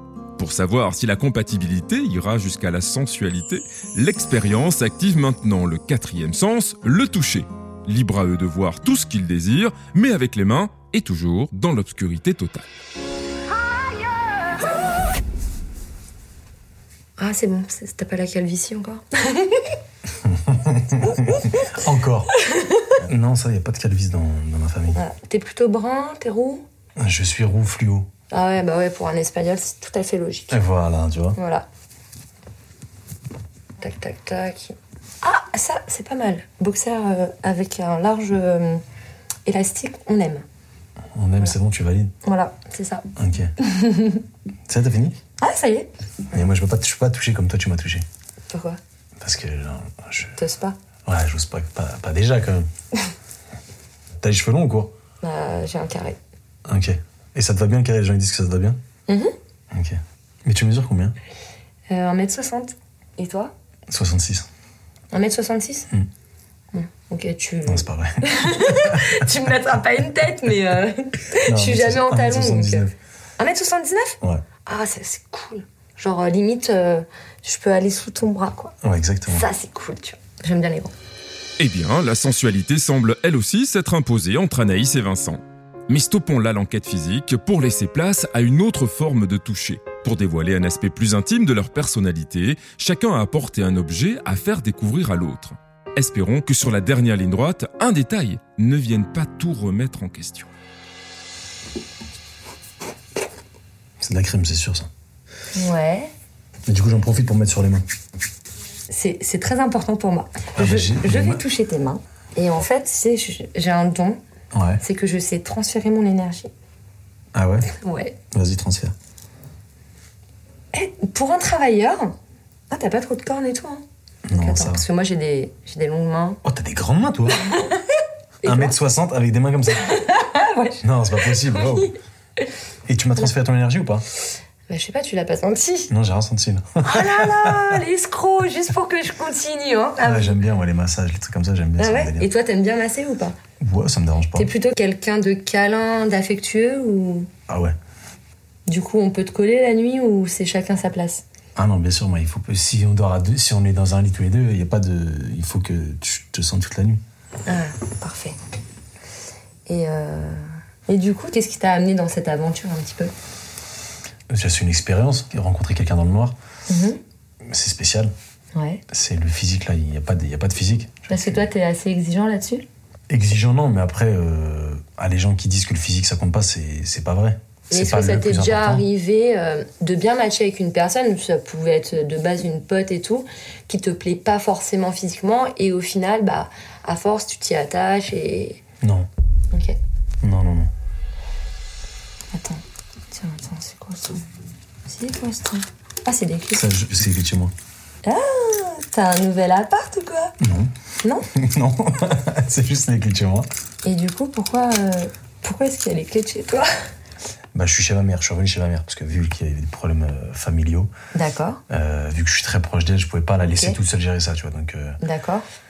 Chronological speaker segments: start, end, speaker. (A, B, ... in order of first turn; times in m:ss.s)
0:00.4-0:12.7 A
0:17.2-0:19.7 B
0:20.2-0:22.3 C
0:22.5-0:22.9 B
0:23.0-0:25.0 C
0:24.9-0:26.6 B
0:27.0-0:28.1 C
0:28.3-0:30.6 B
0:30.5-0:31.4 C
0:31.4-0:31.6 B
0:33.8-0:38.8 B
0:39.5-0:40.4 B
0:41.2-0:42.1 C
0:42.2-0:43.1 B
0:43.2-0:43.5 C
0:43.6-0:44.2 B
0:44.7-0:45.2 C
0:45.4-0:45.9 B
0:46.3-0:48.0 C
0:48.5-0:48.8 B
0:49.2-0:50.4 C
0:50.4-0:50.8 B
0:51.1-0:52.7 C
0:54.2-0:54.9 C
0:55.2-0:56.2 B
0:56.7-0:58.8 C
0:59.1-0:59.3 B
0:59.7-1:01.2 C
1:01.9-1:03.5 B
1:03.9-1:04.5 C
1:05.1-1:05.9 B
1:06.7-1:18.7 B
1:07.6-1:09.2 C
1:11.4-1:12.9 C
1:18.8-1:19.5 C
1:19.3-1:20.9 B
1:21.6-1:40.5 A
1:44.0-1:44.9 C
1:45.6-1:46.1 B
1:46.7-1:47.8 C
1:48.9-1:54.2 B
1:50.6-1:51.4 C
1:54.5-1:54.8 C
1:54.8-1:56.5 B
1:57.3-1:57.7 C
1:57.7-1:58.2 B
1:58.3-1:58.9 C
2:00.7-2:02.2 B
2:02.7-2:03.8 B
2:04.3-2:04.8 C
2:04.4-2:06.4 B
2:06.4-2:07.4 C
2:07.4-2:08.8 B
2:08.4-2:09.9 C
2:09.7-2:12.0 B
2:10.8-2:12.0 C
2:12.9-2:14.0 C
2:14.7-2:15.9 B
2:15.9-2:17.8 C
2:16.8-2:20.4 B
2:20.0-2:22.3 C
2:21.8-2:23.4 B
2:23.6-2:24.5 C
2:24.4-2:27.3 B
2:27.5-2:27.8 C
2:28.7-2:31.2 B
2:31.6-2:37.0 C
2:37.5-2:38.4 B
2:39.7-2:43.1 B
2:44.3-2:46.4 C
2:46.7-2:47.0 B
2:47.5-2:48.1 C
2:48.6-2:48.8 B
2:48.9-2:51.4 C
2:51.1-2:52.7 B
2:53.1-2:58.8 C
2:57.7-3:08.6 B
3:08.8-3:09.1 C
3:10.2-3:10.7 C
3:12.3-3:14.2 B
3:14.9-3:16.7 B
3:16.5-3:17.5 C
3:18.0-3:20.3 B
3:20.4-3:20.7 C
3:21.4-3:23.5 C
3:23.8-3:26.7 B
3:27.5-3:30.9 C
3:31.1-3:31.6 B
3:31.7-3:35.0 C
3:33.5-3:33.8 B
3:35.0-3:35.4 B